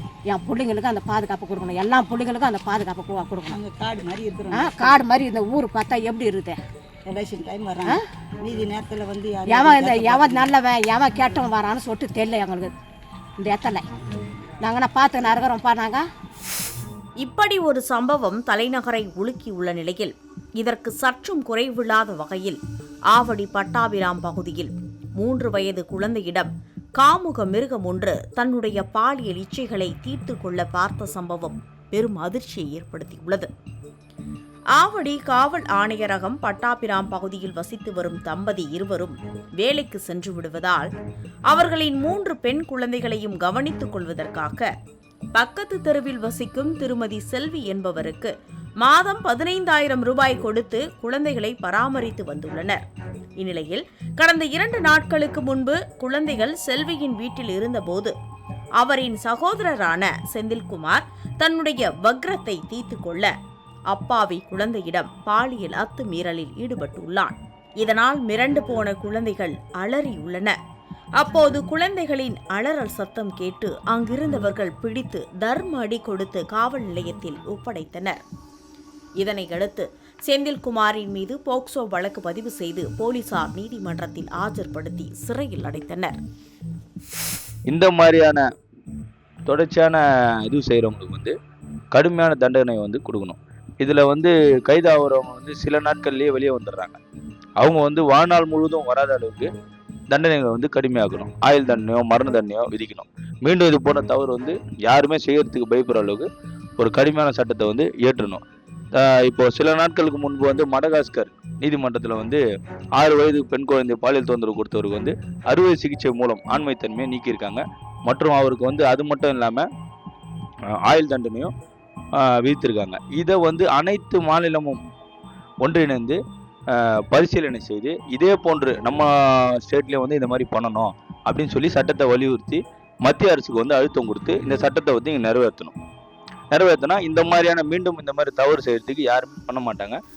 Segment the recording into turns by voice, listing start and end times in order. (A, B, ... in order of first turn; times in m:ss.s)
0:00.3-0:03.6 A
0:03.6-0:04.6 B
0:04.5-0:06.6 A
0:07.1-0:07.9 B
0:08.4-0:10.4 B
0:09.5-0:12.7 A
0:13.4-0:13.9 A
0:14.6-0:16.0 A
0:17.2-0:22.6 C
0:23.1-0:33.5 C
0:34.8-0:40.9 C
0:41.5-0:44.7 C
0:45.4-0:52.8 C
0:53.4-0:58.1 C
0:58.8-1:03.3 C
1:03.9-1:10.6 C
1:11.2-1:18.2 C
1:19.2-1:26.2 C
1:27.7-1:28.4 D
1:29.5-1:31.3 D
1:31.9-1:37.0 D
1:37.6-1:39.5 D
1:40.1-1:46.3 D
1:46.8-1:48.4 D
1:48.9-1:52.4 D
1:53.0-1:59.6 D
2:00.8-2:01.5 D
2:02.2-2:04.8 D
2:05.6-2:06.2 D
2:06.8-2:15.7 D
2:16.5-2:20.0 D